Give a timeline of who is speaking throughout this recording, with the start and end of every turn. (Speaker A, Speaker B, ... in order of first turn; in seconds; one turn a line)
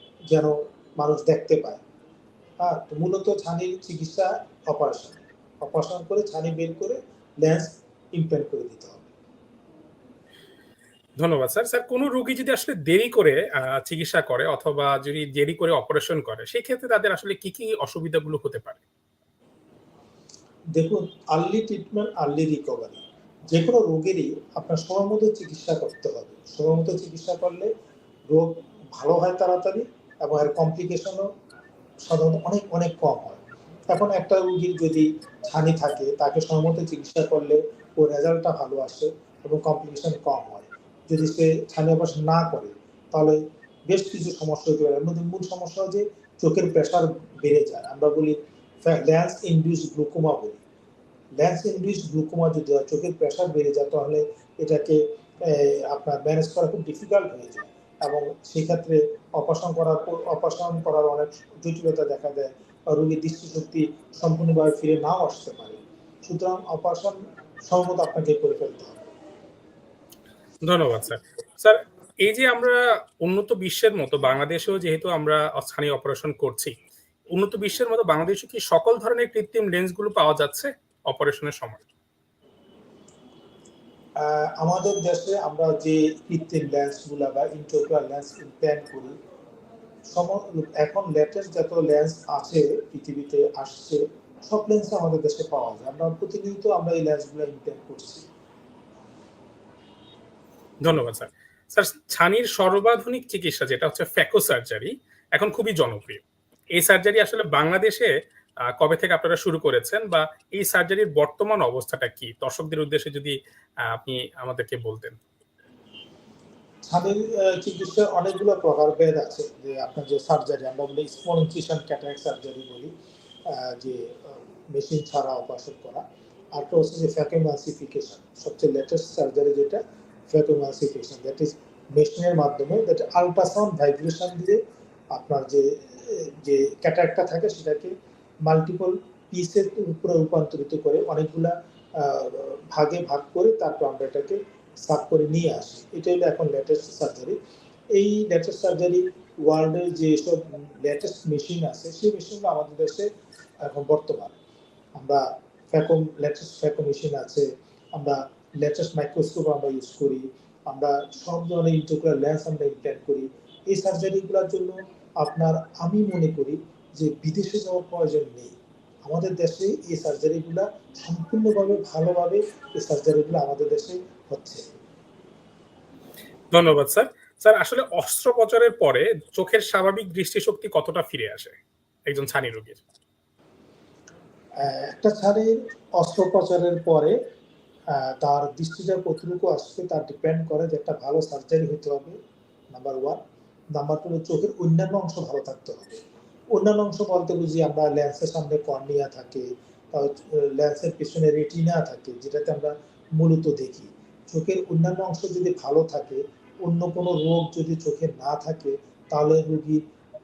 Speaker A: 0.3-1.8
Speaker A: 2.6-9.1
Speaker B: 11.2-18.8
Speaker A: 20.8-27.7
Speaker A: 28.3-31.3
Speaker A: 32.1-33.4
Speaker A: 33.9-50.6
Speaker A: 51.4-69.1
Speaker B: 70.7-76.8
Speaker B: 77.3-81.9
Speaker A: 84.2-89.1
Speaker A: 90.1-98.3
Speaker B: 100.8-106.2
Speaker B: 106.8-108.1
Speaker B: 108.8-113.4
Speaker B: 113.9-115.2
Speaker A: 116.9-122.9
Speaker A: 123.5-126.0
Speaker A: 126.5-134.6
Speaker A: 135.1-137.9
Speaker A: 138.4-147.4
Speaker A: 147.9-153.1
Speaker A: 153.6-154.4
Speaker A: 155.0-174.6
Speaker B: 176.5-181.6
Speaker B: 182.1-182.8
Speaker A: 184.6-187.2
Speaker A: 187.9-192.2
Speaker A: 192.7-193.2
Speaker A: 193.8-196.0
Speaker A: 196.5-209.8